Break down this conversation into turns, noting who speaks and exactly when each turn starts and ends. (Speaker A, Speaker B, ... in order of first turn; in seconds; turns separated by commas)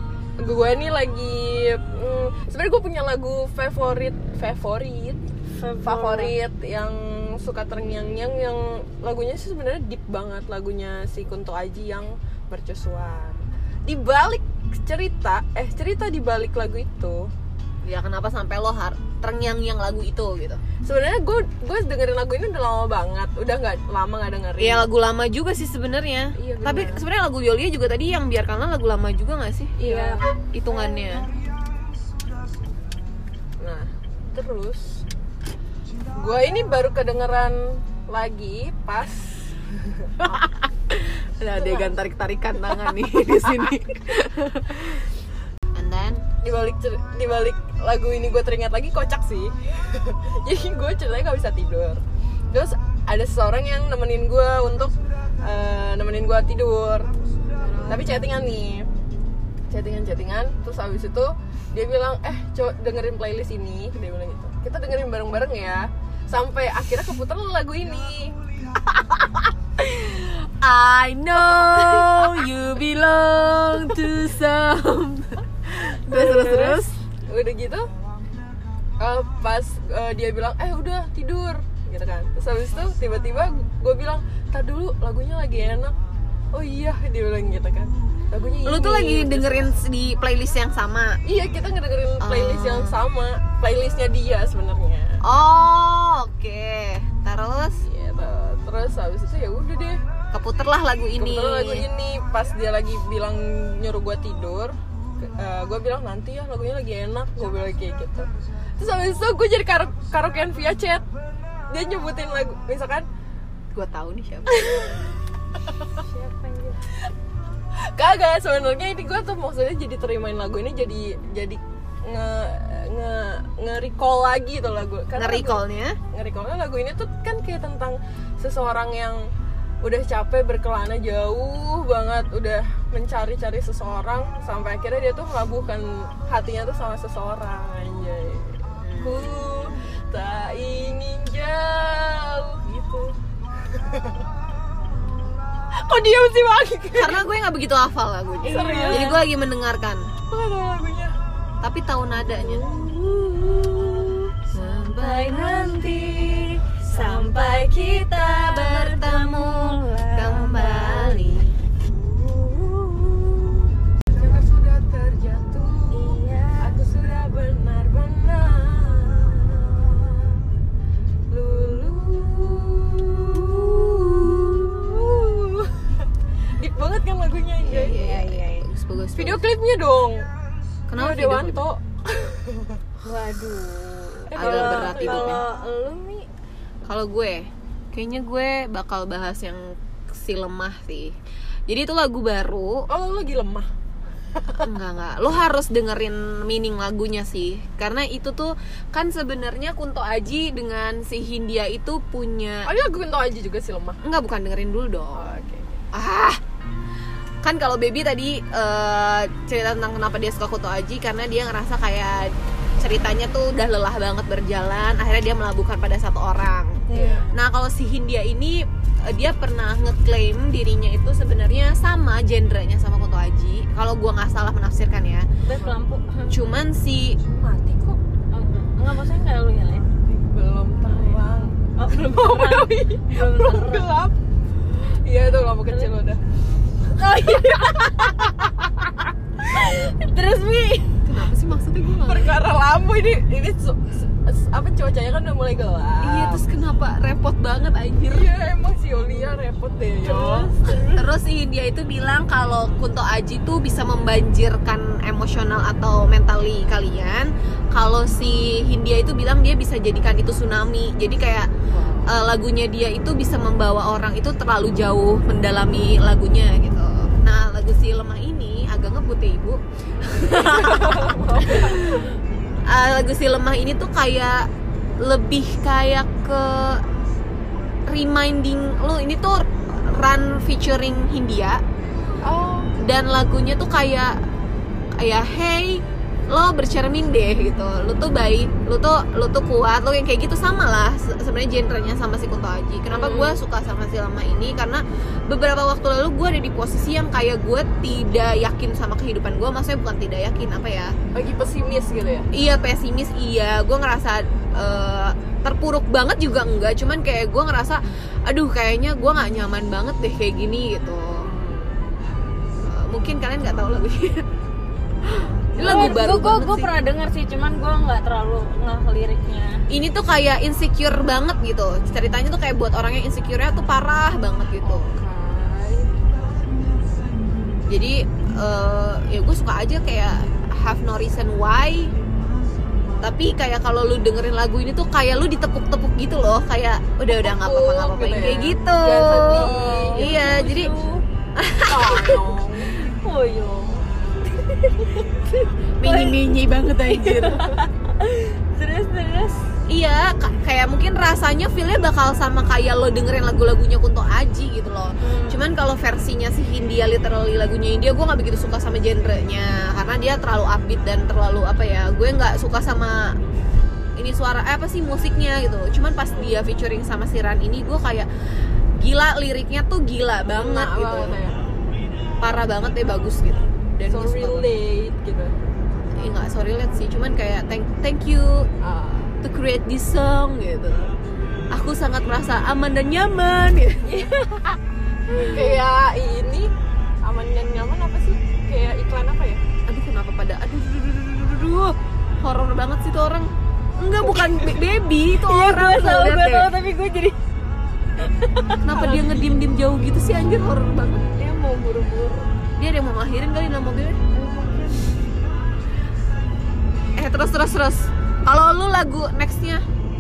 Speaker A: 0.4-5.2, Speaker B: 5.5-6.3, Speaker A: 5.8-17.3, Speaker C: 17.8-20.6, Speaker A: 20.8-24.9, Speaker C: 24.6-29.8, Speaker A: 26.4-27.0, Speaker A: 29.8-30.2, Speaker B: 29.8-30.2, Speaker C: 30.5-31.3, Speaker A: 33.6-35.0, Speaker A: 36.1-40.4, Speaker C: 40.2-45.0, Speaker A: 41.5-42.0, Speaker C: 45.7-46.2, Speaker A: 46.4-57.1, Speaker A: 57.8-58.9, Speaker A: 59.7-68.3, Speaker C: 68.9-76.9, Speaker B: 76.2-76.7, Speaker A: 77.3-77.9, Speaker A: 79.0-85.9, Speaker A: 86.5-89.8, Speaker C: 88.6-91.2, Speaker A: 91.2-95.2, Speaker C: 92.2-93.0, Speaker C: 95.2-97.8, Speaker A: 97.8-100.0, Speaker C: 100.3-101.8, Speaker A: 101.2-111.0, Speaker A: 111.7-113.1, Speaker C: 113.7-115.0, Speaker A: 114.5-115.0, Speaker B: 116.0-116.8, Speaker A: 117.8-129.2, Speaker C: 125.1-126.0, Speaker A: 129.8-143.1, Speaker C: 138.8-139.7, Speaker A: 143.7-144.2, Speaker A: 145.7-147.2, Speaker C: 146.9-150.1, Speaker B: 148.4-149.2, Speaker A: 148.4-149.2, Speaker A: 150.3-151.2, Speaker C: 151.6-152.7, Speaker B: 152.6-154.3, Speaker C: 154.5-155.7, Speaker B: 155.0-161.4, Speaker C: 156.9-161.5, Speaker B: 162.5-163.1, Speaker A: 164.1-170.4, Speaker B: 165.9-166.7, Speaker A: 171.3-175.9, Speaker A: 176.6-178.0, Speaker C: 177.6-179.4, Speaker B: 177.8-178.7, Speaker A: 179.2-180.3, Speaker C: 180.9-181.7, Speaker A: 180.9-182.8, Speaker B: 183.0-186.2, Speaker A: 184.3-185.4, Speaker C: 184.3-185.4, Speaker C: 186.8-191.2, Speaker C: 191.7-192.9, Speaker A: 192.9-193.7, Speaker A: 194.4-194.6, Speaker C: 194.6-202.7, Speaker A: 202.6-204.0, Speaker C: 204.0-205.3, Speaker A: 205.1-205.8, Speaker C: 205.9-206.4, Speaker C: 207.4-225.3, Speaker B: 216.9-217.3, Speaker A: 216.9-217.3, Speaker B: 225.4-226.4, Speaker C: 226.3-227.2, Speaker A: 227.3-228.0, Speaker B: 228.3-229.9, Speaker A: 230.3-234.1, Speaker B: 231.8-233.9, Speaker A: 234.7-236.2, Speaker B: 236.9-238.4, Speaker A: 237.3-238.3, Speaker B: 239.4-241.0, Speaker C: 241.0-242.3, Speaker A: 242.0-246.4, Speaker C: 246.0-248.3, Speaker A: 248.1-250.5, Speaker B: 250.0-251.1, Speaker C: 250.9-261.5, Speaker A: 261.7-262.1, Speaker C: 262.0-272.1, Speaker A: 270.3-272.0, Speaker C: 272.6-276.8, Speaker C: 277.9-281.6, Speaker A: 282.2-282.7, Speaker C: 282.8-284.2, Speaker C: 285.0-300.9, Speaker A: 292.9-293.4, Speaker A: 301.1-302.3, Speaker C: 302.3-311.3, Speaker A: 311.3-311.7, Speaker C: 312.6-314.2, Speaker C: 315.0-316.7, Speaker B: 315.6-319.6, Speaker C: 319.7-324.9, Speaker A: 324.6-325.9, Speaker C: 327.7-331.9, Speaker C: 333.0-340.7, Speaker A: 337.1-340.1, Speaker B: 339.4-341.0, Speaker C: 341.4-342.2, Speaker A: 341.6-342.7, Speaker B: 342.9-345.2, Speaker C: 345.8-347.5, Speaker B: 345.8-349.4, Speaker C: 349.7-363.2, Speaker B: 355.0-355.4, Speaker C: 364.0-368.1, Speaker C: 368.8-371.2, Speaker A: 370.2-371.4, Speaker C: 372.2-374.5, Speaker A: 373.9-375.3, Speaker C: 375.9-378.5, Speaker A: 378.6-379.1, Speaker C: 379.2-380.9, Speaker C: 381.5-384.0, Speaker B: 383.9-384.5, Speaker B: 385.1-385.4, Speaker A: 385.2-386.5, Speaker A: 387.0-389.4, Speaker C: 389.6-396.5, Speaker B: 395.2-397.1, Speaker B: 398.0-398.8, Speaker C: 398.6-401.0, Speaker A: 398.8-399.1, Speaker B: 401.2-402.3, Speaker C: 402.6-404.0, Speaker B: 404.1-404.9, Speaker C: 406.9-409.6